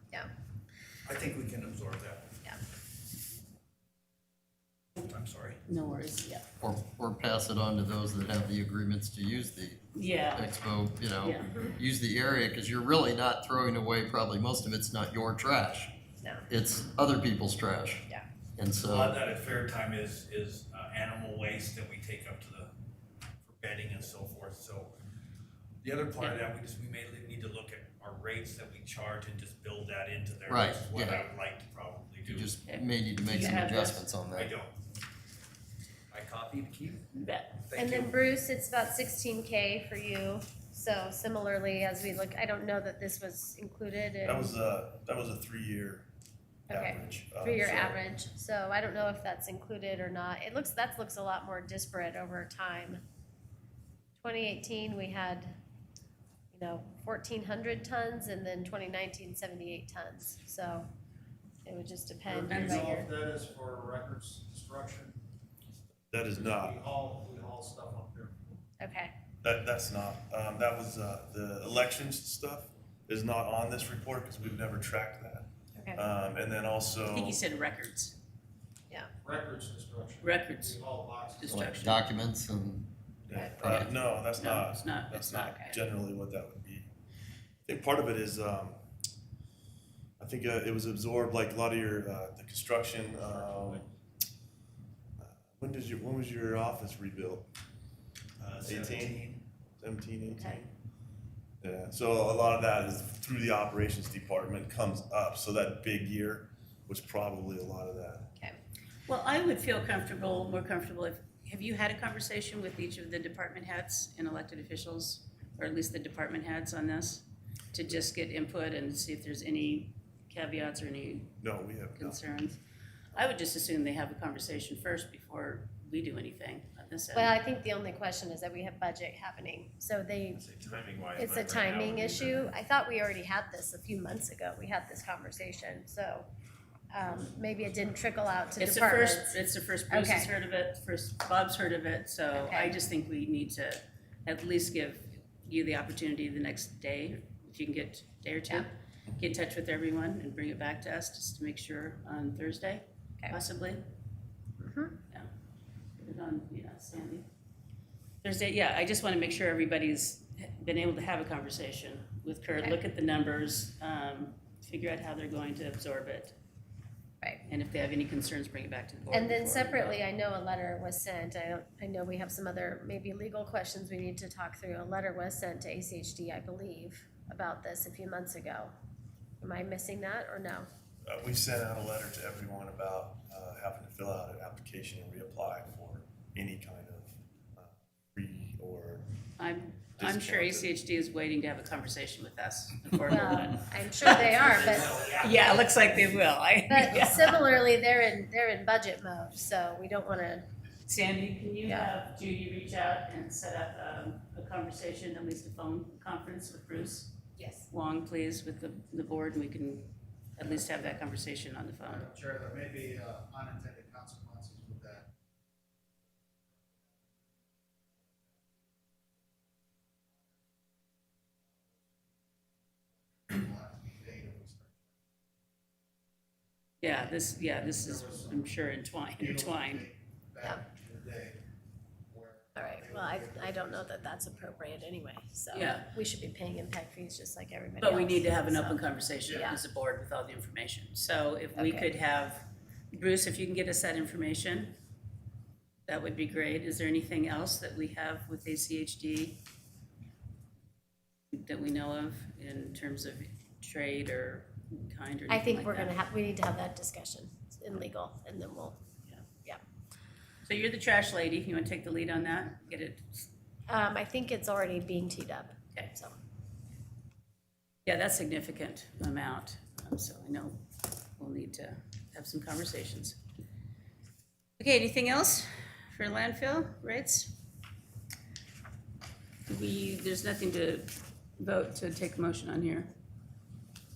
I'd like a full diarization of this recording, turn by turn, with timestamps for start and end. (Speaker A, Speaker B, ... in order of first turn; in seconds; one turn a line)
Speaker A: 1.1-2.3
Speaker A: 5.0-5.6
Speaker B: 5.7-6.5
Speaker C: 6.6-15.9
Speaker B: 9.9-10.5
Speaker B: 11.2-11.5
Speaker C: 16.5-19.2
Speaker A: 18.8-22.7
Speaker A: 23.4-24.9
Speaker A: 25.8-32.6
Speaker C: 30.5-31.2
Speaker C: 32.3-34.5
Speaker B: 32.6-34.0
Speaker A: 34.3-34.7
Speaker A: 36.1-37.0
Speaker B: 37.1-37.6
Speaker A: 37.7-38.1
Speaker D: 37.7-44.5
Speaker E: 44.2-46.1
Speaker E: 46.7-48.0
Speaker D: 46.7-53.0
Speaker D: 54.2-55.5
Speaker D: 56.5-60.9
Speaker D: 61.6-63.1
Speaker F: 62.2-65.2
Speaker B: 62.5-62.9
Speaker E: 66.1-66.8
Speaker F: 66.3-68.4
Speaker D: 68.8-69.1
Speaker E: 69.4-77.4
Speaker D: 75.8-76.0
Speaker B: 77.1-78.2
Speaker F: 79.2-81.6
Speaker B: 80.2-80.8
Speaker B: 81.4-82.0
Speaker C: 81.5-82.9
Speaker E: 83.3-86.9
Speaker D: 83.3-83.7
Speaker B: 83.6-85.7
Speaker E: 87.7-88.8
Speaker E: 90.2-93.8
Speaker A: 93.2-93.8
Speaker E: 95.2-97.5
Speaker A: 98.4-99.4
Speaker E: 98.6-99.2
Speaker E: 99.8-100.7
Speaker E: 101.6-108.3
Speaker B: 109.1-121.4
Speaker E: 121.4-122.2
Speaker B: 122.0-122.6
Speaker B: 123.1-127.4
Speaker D: 127.1-130.4
Speaker A: 130.3-132.4
Speaker D: 131.2-136.3
Speaker D: 136.9-139.4
Speaker B: 138.6-153.8
Speaker D: 139.9-140.3
Speaker D: 142.3-142.8
Speaker D: 154.6-154.9
Speaker B: 156.0-157.3
Speaker B: 158.2-166.4
Speaker B: 167.5-170.0
Speaker D: 169.1-178.7
Speaker D: 179.4-180.7
Speaker E: 181.1-189.1
Speaker B: 189.4-197.4
Speaker E: 190.0-190.7
Speaker D: 193.1-195.1
Speaker A: 194.0-195.8
Speaker D: 196.7-200.4
Speaker B: 200.9-207.2
Speaker D: 201.7-201.9
Speaker D: 207.4-207.7
Speaker B: 207.7-212.1
Speaker F: 210.4-210.8
Speaker F: 211.8-215.1
Speaker F: 216.8-217.3
Speaker F: 218.0-218.6
Speaker F: 221.6-221.8
Speaker F: 222.9-224.9
Speaker B: 226.8-229.9
Speaker F: 227.6-228.5
Speaker F: 229.2-231.4
Speaker F: 232.1-234.9
Speaker D: 232.6-239.6
Speaker B: 235.5-235.9
Speaker B: 237.8-244.8
Speaker D: 241.6-241.9
Speaker B: 245.9-249.4
Speaker B: 251.3-256.0
Speaker D: 255.3-258.8
Speaker B: 260.4-263.2
Speaker D: 263.7-266.2
Speaker B: 267.9-270.6
Speaker B: 271.2-273.2
Speaker B: 274.6-277.4
Speaker B: 279.5-282.9